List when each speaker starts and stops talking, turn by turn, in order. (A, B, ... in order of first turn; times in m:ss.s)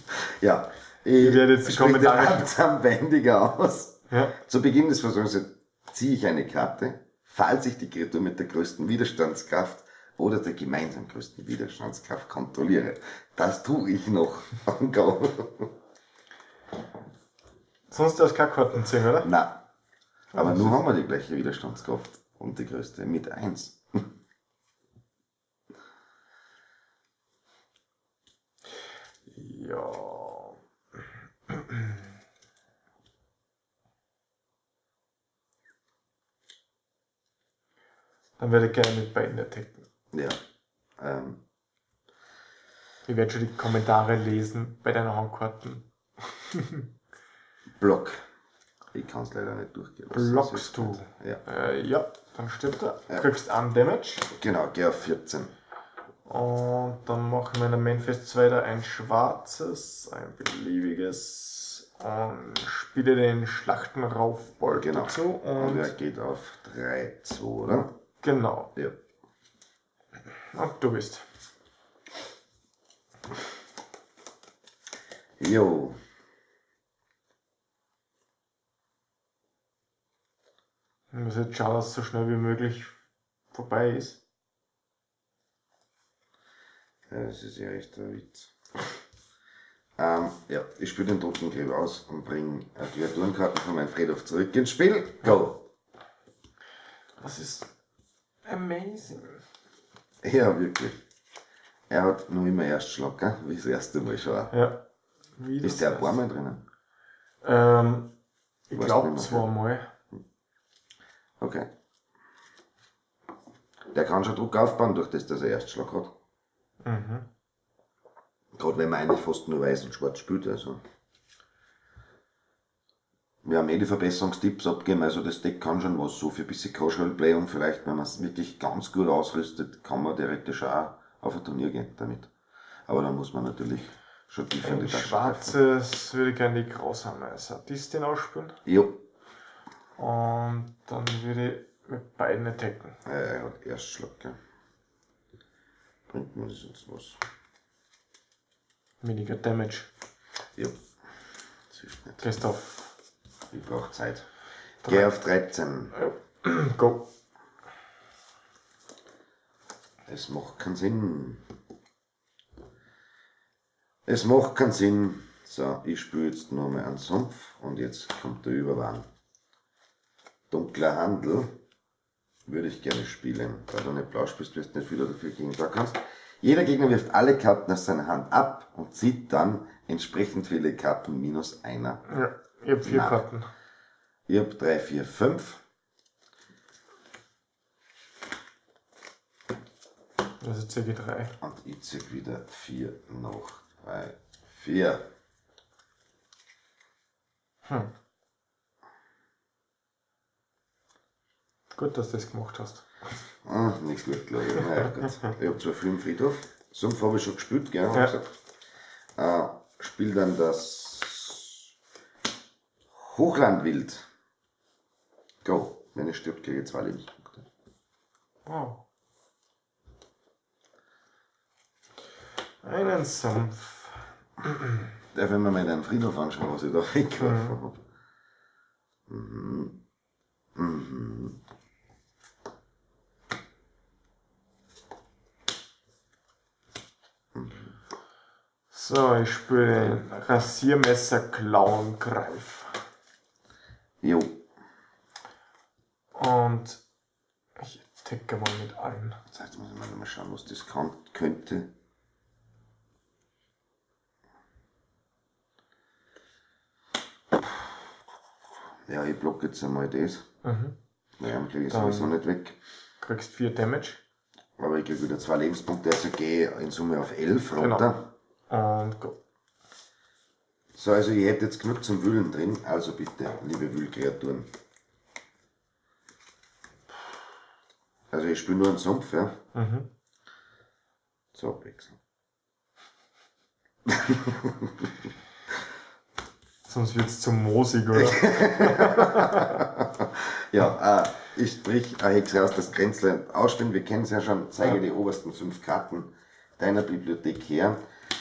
0:00.4-0:15.7 A
0:01.2-0:02.5 B
0:04.1-0:04.4 B
0:17.9-0:19.3 B
0:19.2-0:19.6 A
0:20.3-0:20.8 B
0:20.3-0:24.0 A
0:29.3-0:30.6 B
0:31.5-0:32.1 B
0:38.4-0:39.8 B
0:40.1-0:40.4 A
0:41.0-0:41.4 A
0:43.0-0:46.8 B
0:47.8-0:48.2 A
0:48.9-0:51.4 A
0:50.1-0:54.3 B
0:54.3-0:55.5 A
0:56.2-1:05.9 B
1:04.6-1:07.9 A
1:08.2-1:08.7 B
1:10.5-1:11.2 B
1:15.4-1:16.0 A
1:21.1-1:22.9 B
1:23.5-1:24.2 B
1:27.1-1:28.9 A
1:30.0-1:35.6 A
1:37.2-1:37.7 B
1:38.4-1:39.4 B
1:40.2-1:41.0 A
1:41.9-1:44.5 A
1:44.5-1:44.8 B
1:45.4-1:46.2 B
1:45.6-1:46.6 A
1:47.4-1:48.1 B
1:48.7-1:49.9 B
1:48.7-1:49.5 A
1:51.4-1:51.7 A
1:53.9-1:56.1 A
1:56.8-1:57.2 B
1:58.5-2:00.8 A
2:03.4-2:12.3 A
2:12.9-2:15.6 A
2:14.6-2:18.6 B
2:18.6-2:19.0 A
2:20.0-2:23.0 B
2:23.0-2:24.4 A
2:26.1-2:27.2 A
2:29.0-2:29.9 B
2:31.7-2:32.2 A
2:32.2-2:32.9 B
2:33.5-2:34.3 A
2:34.8-2:35.1 B
2:34.8-2:35.9 A
2:35.9-2:37.1 B
2:40.1-2:41.4 A
2:44.0-2:49.0 A
2:50.5-2:51.5 A
2:52.5-3:02.0 A
3:02.0-3:03.5 B
3:02.8-3:03.2 A
3:04.3-3:05.6 A
3:10.4-3:11.3 B
3:11.4-3:15.0 A
3:17.6-3:17.9 B
3:21.7-3:22.8 B
3:23.4-3:28.3 A
3:29.2-3:31.6 A
3:32.9-3:34.1 A
3:35.4-3:37.4 A
3:38.4-3:38.8 B
3:42.6-3:44.9 B
3:45.1-3:47.8 A
3:47.2-3:47.6 B
3:49.1-3:49.8 A
3:50.5-3:51.4 A
3:57.3-3:57.7 A
3:58.7-4:02.8 B
4:04.0-4:04.4 A
4:06.1-4:06.8 B
4:07.6-4:09.2 B
4:09.3-4:11.7 A
4:18.9-4:20.2 A
4:20.4-4:20.7 B
4:21.2-4:22.6 A
4:21.7-4:22.2 B
4:23.0-4:24.0 B
4:24.6-4:28.1 A
4:27.6-4:27.9 B
4:28.5-4:29.2 B
4:30.7-4:34.5 A
4:38.1-4:39.4 A
4:39.5-4:39.9 B
4:41.3-4:42.0 A
4:43.9-4:44.7 A
4:46.7-4:49.6 B
4:47.9-4:57.8 A